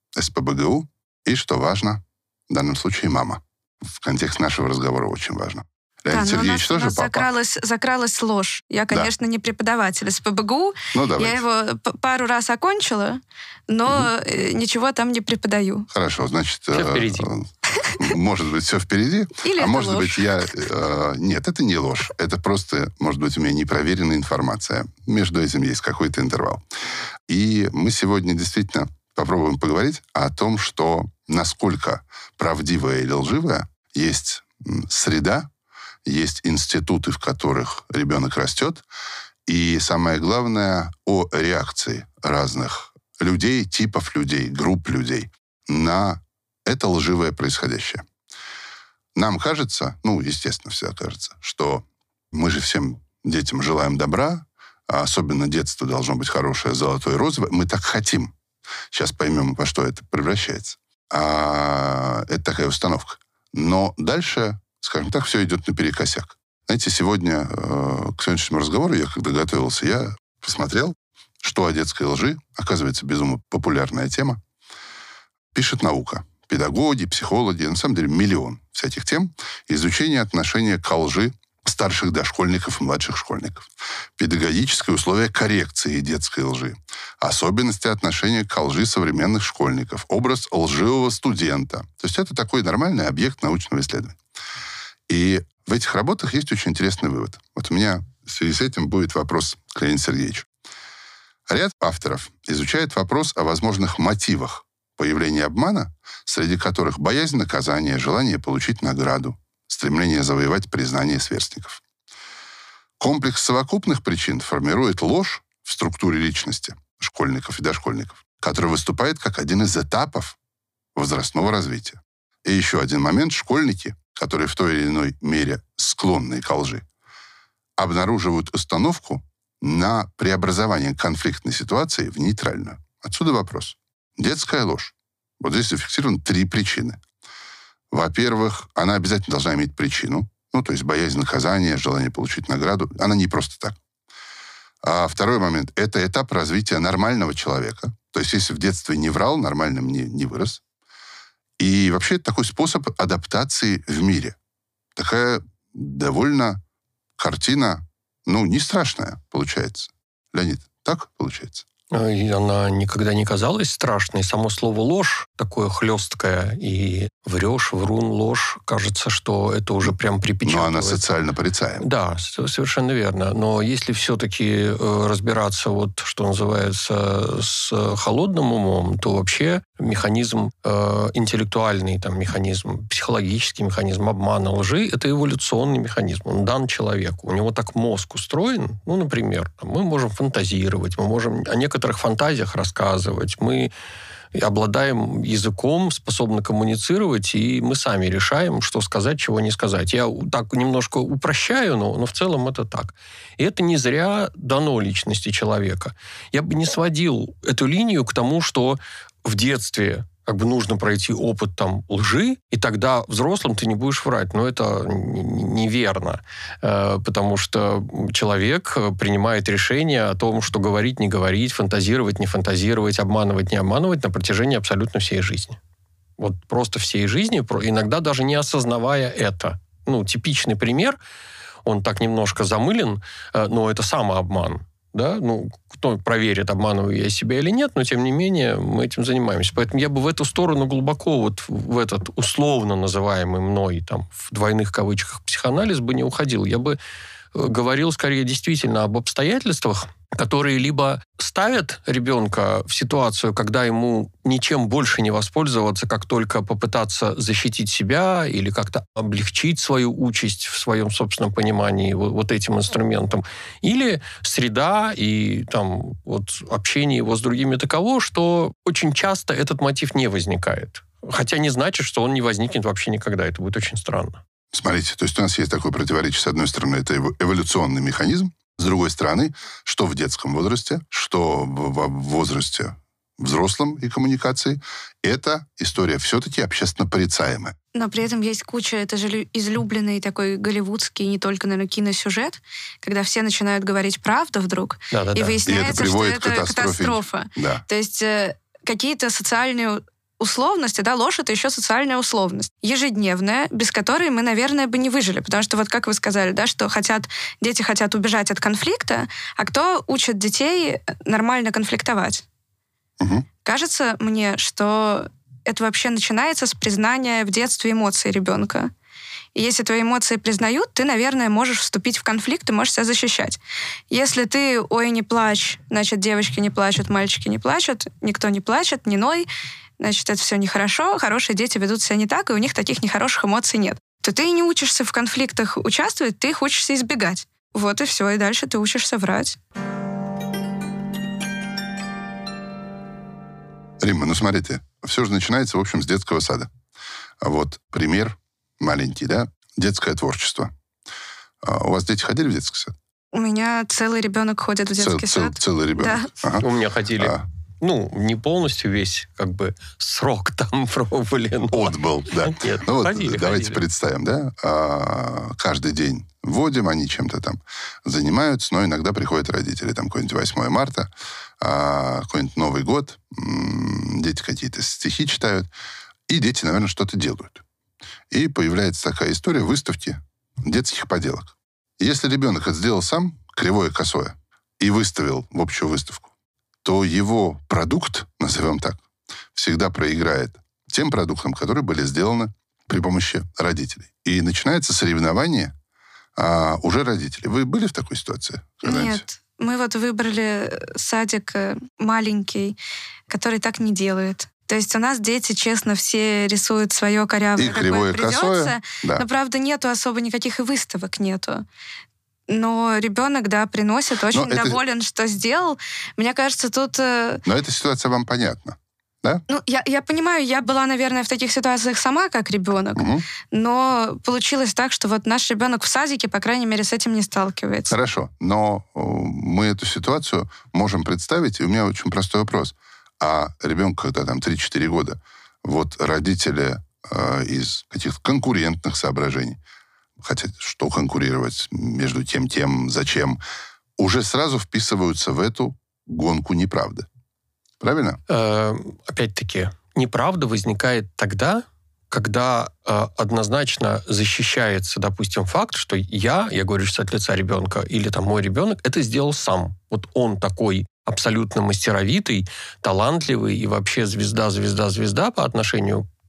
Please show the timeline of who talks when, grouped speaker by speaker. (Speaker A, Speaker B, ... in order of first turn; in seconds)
Speaker A: 0.1-7.3, 10.9-11.4, 15.9-26.6, 27.3-35.5, 36.1-38.9, 39.5-48.0, 49.2-58.3, 58.9-74.4, 75.5-94.2, 95.1-100.5, 101.5-111.8, 113.0-120.4, 121.0-126.8, 127.8-137.0, 137.9-143.8, 144.8-150.6, 151.6-154.4, 155.0-156.6, 157.2-161.7, 170.4-171.8, 274.5-287.6, 295.5-297.6, 313.0-313.3, 343.8-346.5, 347.2-350.5, 351.4-352.8, 354.8-356.5, 357.0-357.2, 361.5-375.5, 376.1-377.4, 378.1-386.1, 386.6-388.8, 389.4-395.5, 396.2-399.0, 407.4-409.1, 414.1-414.6, 417.2-419.2, 422.8-423.1, 427.7-439.4, 440.0-443.2, 443.8-446.9, 447.6-448.0
Speaker B: 6.1-15.9, 19.4-20.3, 287.7-312.2, 313.4-318.7, 319.4-323.4, 323.9-329.3, 329.8-339.4, 353.1-356.1, 398.6-402.6, 403.1-411.4, 412.3-417.2, 419.3-427.7
Speaker C: 16.7-17.3, 161.9-171.1, 171.8-193.7, 194.3-225.6, 226.2-231.0, 231.7-246.8, 247.3-274.2, 294.9-295.4, 356.4-361.7, 362.2-363.6, 448.1-465.9